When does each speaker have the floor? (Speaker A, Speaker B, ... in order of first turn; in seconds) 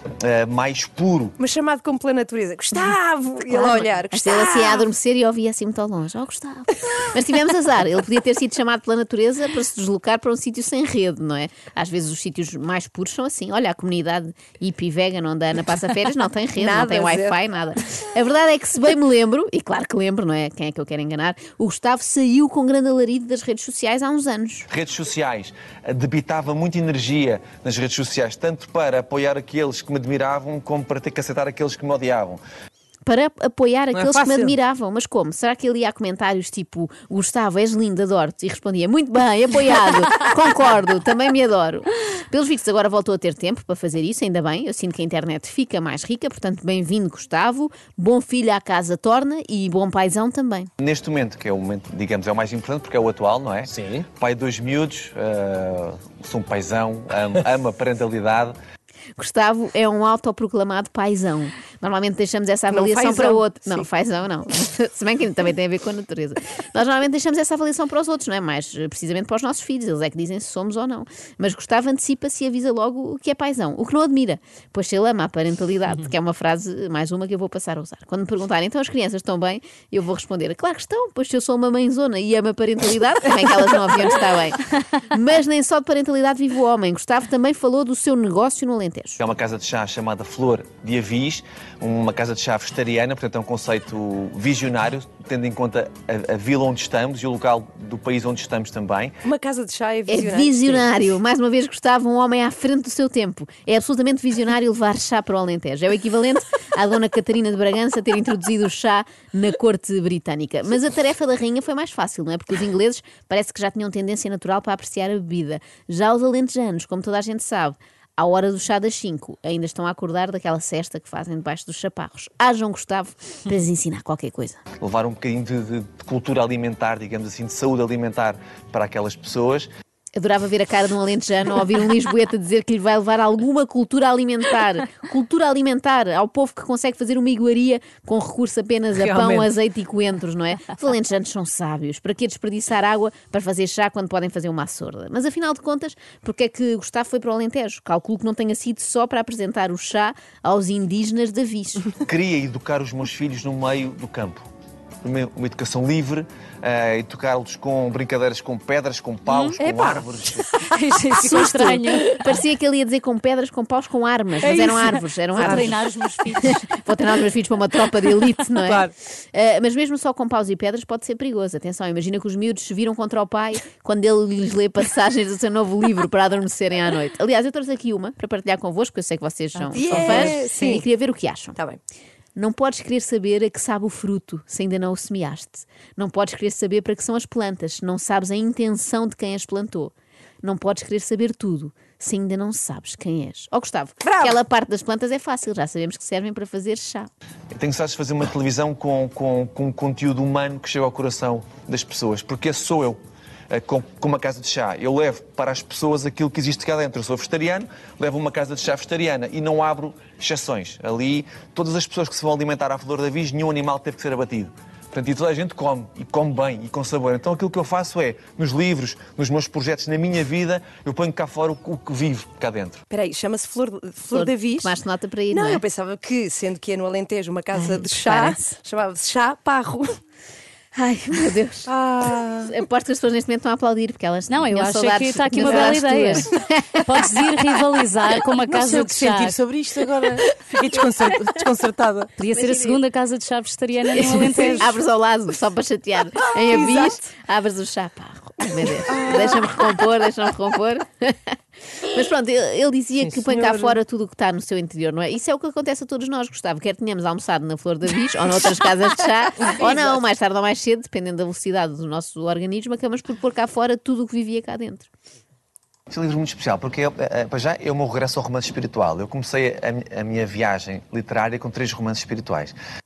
Speaker A: 0.2-1.3, 24.7-32.4, 50.8-58.5, 89.2-99.2, 124.8-129.7, 151.9-154.4, 155.0-160.4, 197.5-203.0, 203.5-222.8, 265.9-272.6
Speaker B: 1.4-4.8, 16.6-17.4, 62.7-63.8, 99.2-100.9, 159.6-160.0, 179.6-180.8, 194.0-194.4, 222.9-224.8, 225.3-230.0, 231.7-232.5, 242.3-242.7, 246.3-247.0, 248.9-249.2
Speaker C: 3.5-24.7, 33.0-50.7, 59.2-89.2, 100.1-124.6, 130.1-151.9, 161.1-165.9, 166.4-181.6, 182.3-197.1, 224.1-225.6, 227.6-228.5, 230.7-231.7, 232.4-236.8, 243.9-251.2, 251.9-264.9
Speaker D: 33.9-34.6, 138.9-139.5, 165.3-166.6, 168.6-168.9, 234.6-235.6, 238.1-244.6, 253.1-253.8
Speaker E: 159.3-159.6, 160.6-162.1, 165.4-166.2, 234.3-236.2, 236.9-239.4, 242.2-244.7